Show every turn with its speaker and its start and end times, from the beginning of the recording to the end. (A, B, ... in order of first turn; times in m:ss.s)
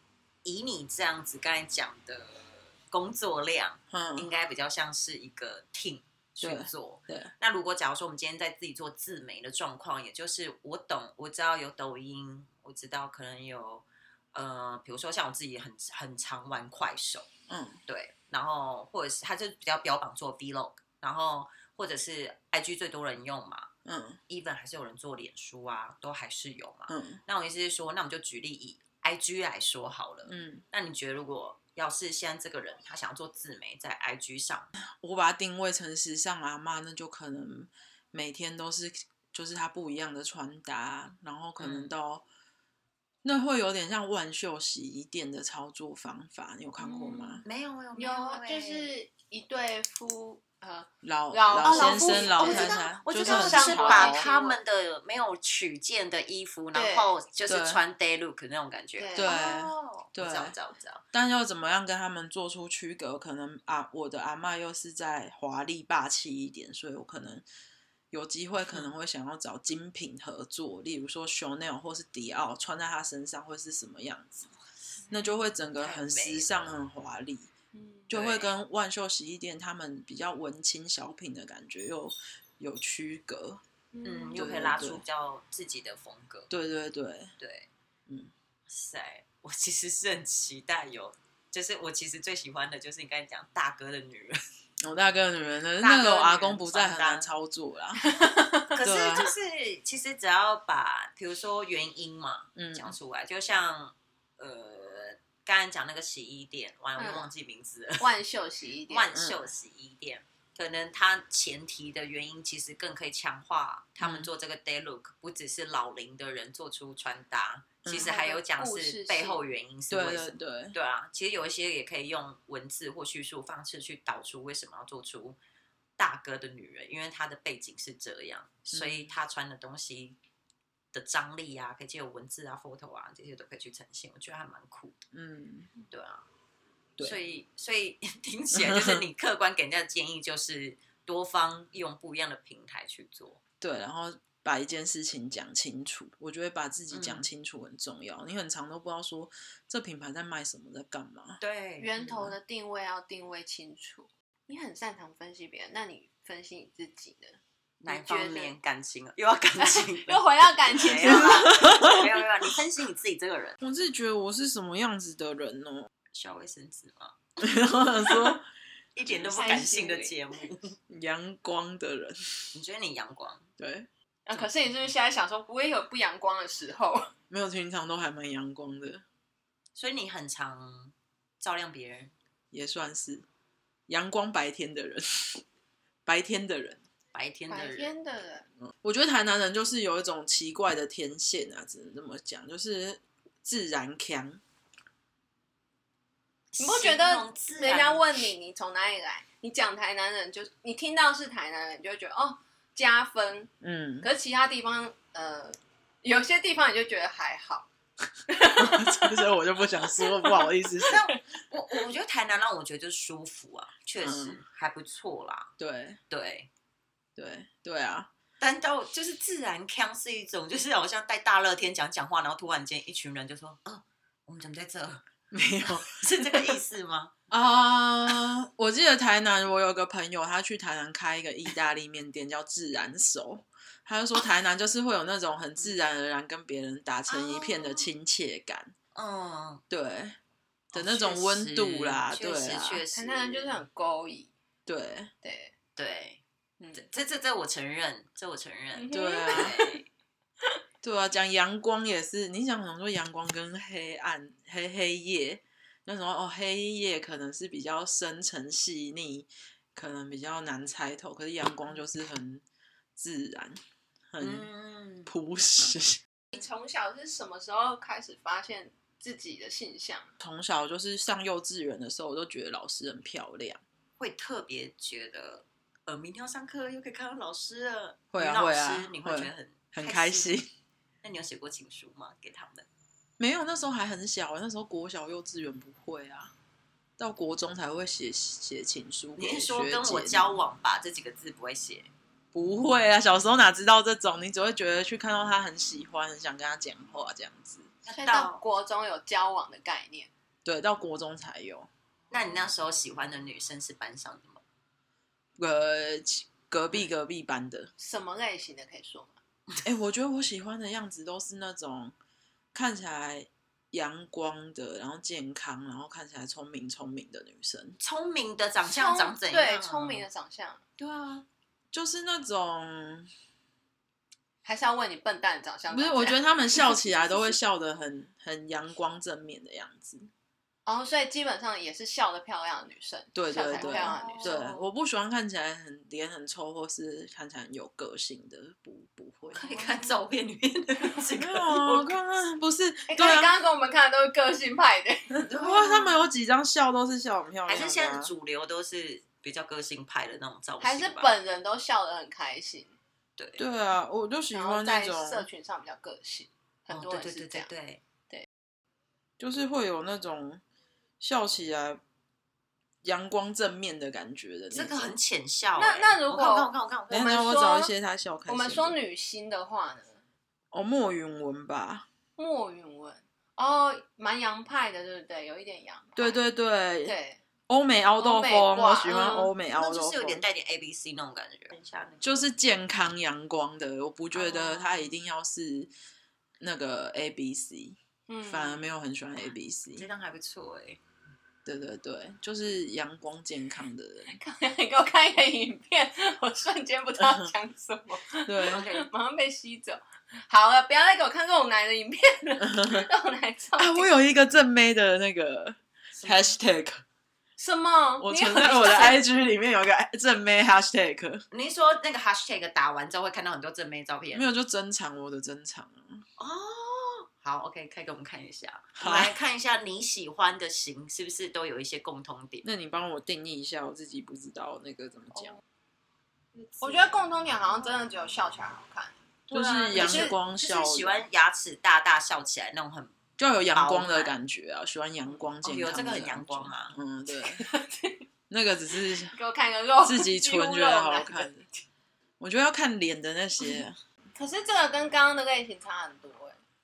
0:00.4-0:17.3 A
0:03.9-0:04.3 B
0:06.4-0:07.3 B
0:17.5-0:17.8 B
0:17.9-0:23.7 A
0:23.8-0:24.2 B
0:24.3-0:34.7 A
0:26.9-0:27.2 B
0:30.3-0:30.6 B
0:35.0-0:42.2 B
0:41.6-0:41.9 A
0:43.2-0:47.4 B
0:46.8-0:47.4 C
0:47.4-0:48.9 A
0:48.0-0:54.6 C
0:51.0-0:54.3 B
0:51.6-1:01.0 A
0:56.7-0:57.1 C
0:57.5-0:57.8 B
0:59.0-0:59.6 C
0:59.2-1:00.5 B
1:01.1-1:07.4 B
1:08.1-1:14.5 B
1:15.1-1:17.5 B
1:15.8-1:16.8 A
1:17.7-1:18.1 C
1:18.1-1:23.6 B
1:18.1-1:18.5 A
1:23.9-1:24.4 C
1:24.0-1:26.5 A
1:24.4-1:25.0 B
1:26.5-1:27.3 B
1:27.4-1:27.7 A
1:28.7-1:34.4 A
1:34.8-1:38.0 B
1:35.8-1:37.3 A
1:38.0-1:38.8 C
1:38.7-1:48.1 A
1:38.8-1:39.3 B
1:42.6-1:43.0 B
1:47.0-1:47.3 C
1:48.0-1:49.1 C
1:48.9-2:05.4 A
1:49.1-1:49.4 B
1:54.0-1:54.3 B
1:57.8-1:58.1 B
1:58.0-1:59.4 C
1:59.9-2:00.8 B
2:06.0-2:10.2 A
2:08.7-2:09.1 B
2:10.9-2:15.0 A
2:15.1-2:15.7 B
2:15.9-2:16.3 A
2:17.0-2:23.4 A
2:18.5-2:19.0 B
2:23.6-2:31.4 B
2:26.9-2:27.2 A
2:31.4-2:32.0 A
2:31.8-2:38.5 C
2:37.8-2:43.6 A
2:39.6-2:41.9 C
2:41.0-2:42.0 B
2:43.6-2:45.9 B
2:46.1-2:47.2 A
2:47.4-2:48.5 B
2:49.0-2:50.8 A
2:49.3-2:50.2 C
2:50.9-2:52.2 B
2:52.5-2:53.5 A
2:53.6-2:54.4 B
2:54.3-2:57.1 C
2:57.3-2:59.0 B
2:59.8-3:02.1 A
3:02.5-3:03.3 B
3:03.9-3:05.4 B
3:06.1-3:06.8 B
3:07.1-3:07.9 A
3:07.5-3:08.5 C
3:08.6-3:14.4 B
3:16.5-3:18.1 A
3:16.6-3:27.7 C
3:23.6-3:24.1 B
3:28.3-3:31.0 C
3:28.6-3:31.0 B
3:30.8-3:35.5 A
3:34.0-3:34.4 B
3:35.6-3:36.0 B
3:36.1-3:36.5 A
3:37.2-3:38.1 B
3:38.4-3:45.0 A
3:45.3-3:45.9 B
3:45.8-3:47.1 A
3:47.3-3:58.7 B
3:57.1-3:57.9 C
3:59.0-3:59.6 A
3:59.7-4:00.2 B
4:00.7-4:02.8 B
4:00.7-4:03.6 A
4:03.0-4:04.3 C
4:04.7-4:05.1 B
4:05.2-4:05.5 C
4:05.8-4:09.8 A
4:08.8-4:09.8 C
4:08.9-4:09.6 B
4:10.8-4:22.4 B
4:23.0-4:23.6 B
4:24.1-4:24.5 B
4:24.2-4:25.1 A
4:25.1-4:26.0 B
4:26.3-4:30.1 C
4:30.2-4:33.6 B
4:34.0-4:40.4 A
4:38.1-4:40.5 B
4:41.0-4:42.7 A
4:43.2-4:46.3 B
4:47.0-4:50.3 B
4:49.2-4:51.9 A
4:52.3-4:57.7 B
4:57.8-4:58.4 A
4:57.9-5:00.1 C
5:00.4-5:01.7 B
5:02.1-5:04.4 A
5:05.4-5:07.7 B
5:07.8-5:09.2 C
5:09.6-5:11.9 B
5:12.5-5:17.8 B
5:17.8-5:20.0 A
5:18.6-5:20.6 C
5:20.8-5:21.3 A
5:21.7-5:23.1 B
5:24.4-5:27.4 C
5:25.7-5:30.1 B
5:30.7-5:34.4 C
5:33.2-5:39.5 B
5:33.6-5:34.7 A
5:39.3-5:42.0 A
5:39.5-5:40.0 C
5:41.2-5:43.3 B
5:42.9-5:46.0 C
5:45.1-5:48.1 B
5:47.5-5:51.2 A
5:50.6-5:52.7 C
5:53.2-5:53.4 A
5:53.4-5:55.3 B
5:54.3-5:57.5 C
5:56.7-5:57.8 A
5:59.2-6:00.4 B
6:01.0-6:01.8 B
6:02.8-6:05.0 B
6:04.5-6:07.2 A
6:05.6-6:07.7 C
6:06.9-6:08.8 B
6:08.3-6:10.0 C
6:10.5-6:11.9 B
6:12.2-6:16.2 C
6:16.0-6:17.0 B
6:16.8-6:17.2 C
6:17.5-6:20.2 B
6:18.0-6:19.3 C
6:19.5-6:22.3 A
6:22.0-6:25.7 B
6:24.2-6:25.0 C
6:26.4-6:29.9 B
6:28.1-6:28.7 C
6:29.8-6:30.8 A
6:31.4-6:34.2 B
6:34.1-6:43.9 C
6:37.0-6:37.3 B
6:38.3-6:38.6 B
6:38.5-6:38.9 A
6:42.4-6:42.9 B
6:43.6-6:46.8 B
6:46.0-6:46.4 A
6:47.4-6:49.0 C
6:48.0-6:51.2 B
6:51.3-6:54.3 A
6:54.1-6:56.0 B
6:56.2-7:02.5 A
6:58.8-6:59.1 B
7:02.4-7:05.4 B
7:06.4-7:06.9 A
7:06.6-7:09.0 C
7:09.3-7:13.0 A
7:09.3-7:11.0 B
7:09.7-7:10.2 C
7:13.2-7:17.4 B
7:13.5-7:14.2 A
7:15.4-7:16.8 A
7:17.1-7:18.0 C
7:18.3-7:19.1 B
7:18.7-7:21.6 C
7:19.8-7:21.4 B
7:22.2-7:23.8 B
7:24.2-7:26.4 C